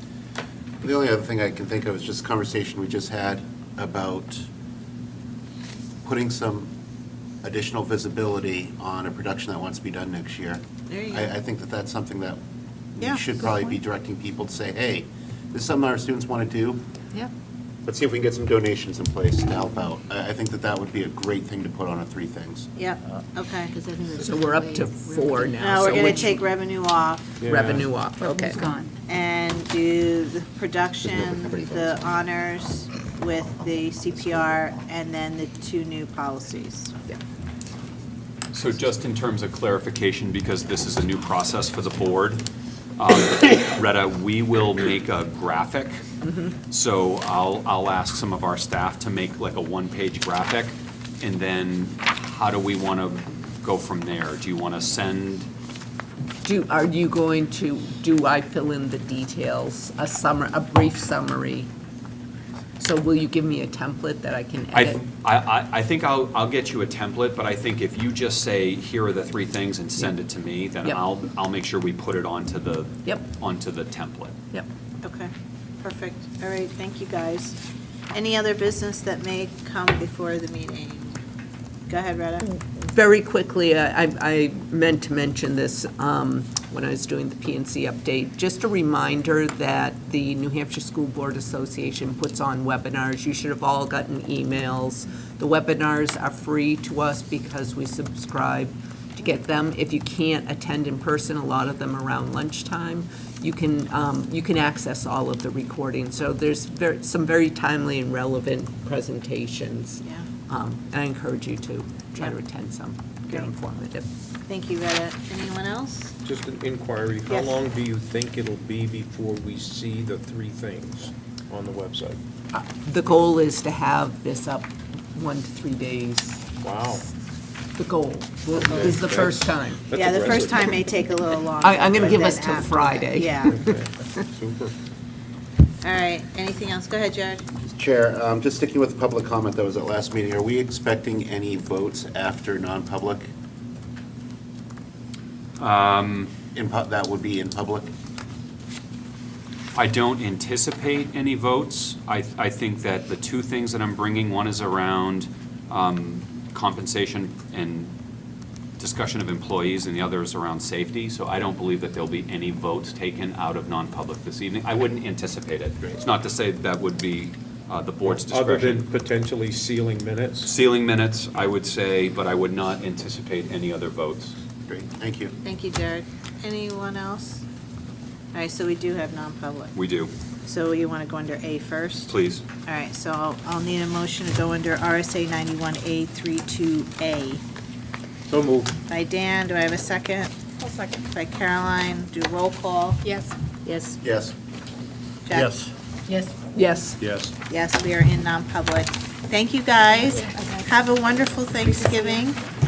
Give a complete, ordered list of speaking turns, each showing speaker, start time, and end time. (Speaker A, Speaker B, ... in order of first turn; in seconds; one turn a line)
Speaker A: 0.8-4.5
Speaker A: 6.0-6.7
Speaker A: 7.4-12.4
Speaker B: 10.9-11.3
Speaker A: 12.9-16.8
Speaker A: 17.9-22.7
Speaker B: 22.8-23.8
Speaker C: 23.7-25.8
Speaker D: 24.1-26.4
Speaker B: 25.6-27.4
Speaker E: 27.4-27.9
Speaker D: 27.4-28.7
Speaker C: 28.2-28.9
Speaker B: 29.1-36.9
Speaker F: 38.5-42.5
Speaker F: 43.0-46.0
Speaker D: 46.2-46.5
Speaker F: 46.7-55.5
Speaker D: 56.4-61.7
Speaker D: 62.8-65.0
Speaker F: 64.7-74.3
Speaker B: 75.0-75.3
Speaker B: 75.8-77.6
Speaker B: 78.1-81.2
Speaker B: 81.9-82.4
Speaker D: 82.5-114.1
Speaker B: 114.5-116.1
Speaker E: 116.2-122.2
Speaker B: 117.3-117.6
Speaker D: 122.5-126.5
Speaker E: 126.6-127.0
Speaker D: 127.8-129.8
Speaker E: 128.5-130.8
Speaker B: 129.9-133.6
Speaker D: 131.6-134.2
Speaker E: 133.5-134.7
Speaker B: 135.8-137.4
Speaker A: 137.6-143.3
Speaker F: 145.6-146.3
Speaker A: 146.5-147.9
Speaker F: 149.7-157.9
Speaker F: 158.8-168.8
Speaker E: 168.1-170.5
Speaker F: 170.4-174.3
Speaker A: 174.7-175.3
Speaker B: 175.4-177.4
Speaker B: 178.3-179.7
Speaker F: 179.7-180.1
Speaker B: 180.4-182.1
Speaker F: 182.1-182.4
Speaker B: 182.6-187.4
Speaker E: 188.3-188.8
Speaker B: 188.9-190.3
Speaker C: 190.6-191.0
Speaker B: 191.1-193.0
Speaker C: 193.1-193.9
Speaker A: 194.0-194.3
Speaker B: 195.2-195.6
Speaker D: 196.4-197.0
Speaker E: 197.0-197.3
Speaker B: 197.5-202.4
Speaker C: 200.4-200.6
Speaker C: 201.7-202.2